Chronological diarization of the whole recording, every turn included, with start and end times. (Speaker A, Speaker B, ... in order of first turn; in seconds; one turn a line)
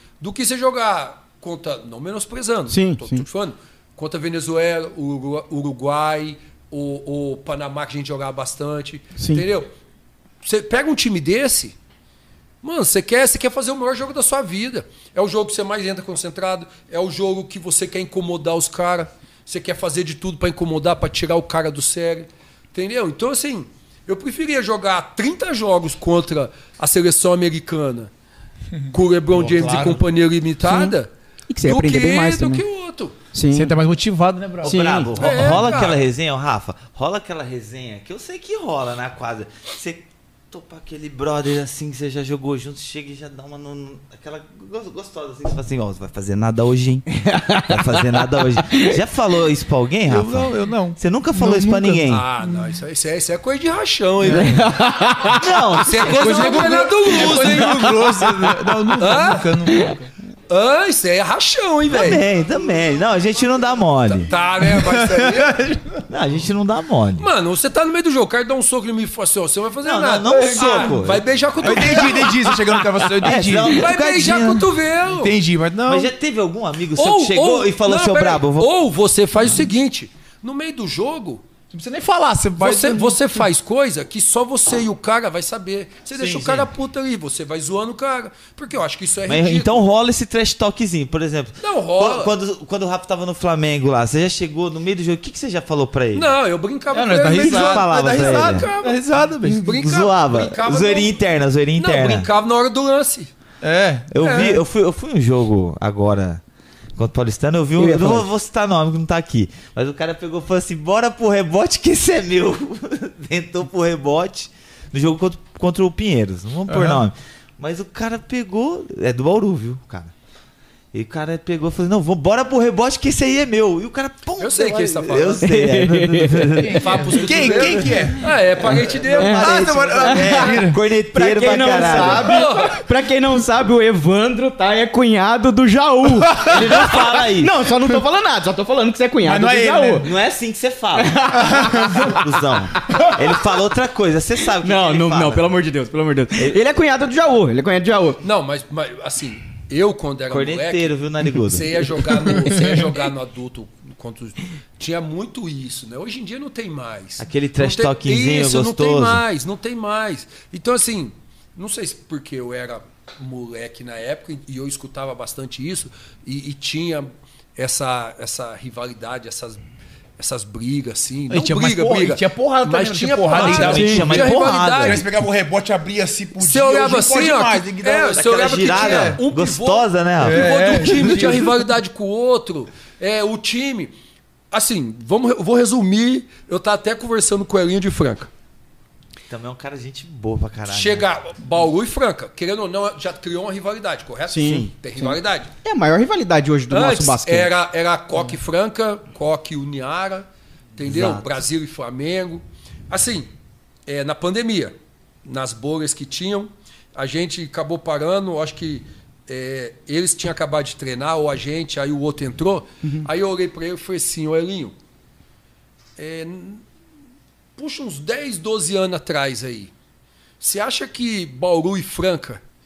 Speaker A: 0.2-9.7
Speaker B: 2.7-3.2
Speaker B: 9.2-9.4
Speaker A: 10.4-11.7
Speaker A: 12.6-28.1
Speaker A: 28.9-31.1
Speaker C: 29.3-30.0
Speaker B: 30.6-30.9
Speaker B: 31.5-32.6
Speaker A: 31.6-33.1
Speaker B: 33.3-33.7
Speaker C: 33.5-35.7
Speaker B: 34.6-35.4
Speaker D: 34.6-52.2
Speaker A: 35.2-36.0
Speaker B: 47.2-48.9
Speaker C: 50.0-52.0
Speaker A: 52.1-54.6
Speaker C: 54.2-54.6
Speaker B: 54.3-55.7
Speaker D: 55.3-56.9
Speaker A: 55.8-58.0
Speaker C: 56.0-60.1
Speaker B: 58.0-58.5
Speaker A: 59.0-59.5
Speaker B: 59.7-60.0
Speaker A: 60.5-62.2
Speaker D: 61.9-64.3
Speaker A: 64.1-65.5
Speaker C: 64.6-66.0
Speaker D: 66.1-67.3
Speaker A: 67.2-72.5
Speaker D: 69.8-71.2
Speaker C: 71.6-73.8
Speaker D: 73.2-74.7
Speaker A: 73.7-75.3
Speaker C: 75.1-76.1
Speaker D: 75.9-78.7
Speaker A: 77.0-81.4
Speaker C: 81.7-83.5
Speaker A: 82.6-89.8
Speaker D: 86.1-86.7
Speaker D: 89.3-96.3
Speaker A: 91.6-92.3
Speaker A: 96.1-101.1
Speaker C: 96.9-99.7
Speaker D: 97.3-98.7
Speaker D: 99.7-102.3
Speaker A: 101.8-103.3
Speaker C: 103.6-104.4
Speaker D: 104.1-106.4
Speaker A: 104.2-104.6
Speaker D: 106.9-120.1
Speaker C: 107.8-108.2
Speaker C: 116.7-117.0
Speaker D: 120.9-127.8
Speaker A: 124.4-125.5
Speaker B: 125.4-126.7
Speaker C: 126.5-128.3
Speaker A: 126.7-129.7
Speaker D: 128.6-132.4
Speaker B: 129.1-140.1
Speaker C: 129.4-130.8
Speaker C: 132.0-132.4
Speaker A: 132.0-132.8
Speaker C: 136.1-136.8
Speaker D: 136.4-137.5
Speaker C: 139.2-140.1
Speaker D: 140.0-145.5
Speaker B: 140.9-142.3
Speaker C: 141.4-141.8
Speaker B: 142.9-143.4
Speaker B: 144.6-148.2
Speaker A: 148.2-169.6
Speaker D: 150.3-152.5
Speaker D: 157.2-159.2
Speaker A: 170.2-175.0
Speaker C: 171.3-178.2
Speaker D: 173.3-175.0
Speaker B: 173.7-174.1
Speaker A: 176.4-183.9
Speaker D: 178.1-181.3
Speaker C: 178.7-179.2
Speaker C: 180.2-181.5
Speaker A: 184.5-188.3
Speaker D: 189.3-191.1
Speaker A: 190.7-195.5
Speaker B: 194.3-197.5
Speaker A: 196.7-203.3
Speaker D: 200.8-201.4
Speaker A: 203.9-214.8
Speaker A: 216.0-216.6
Speaker A: 217.6-219.7
Speaker A: 220.4-222.4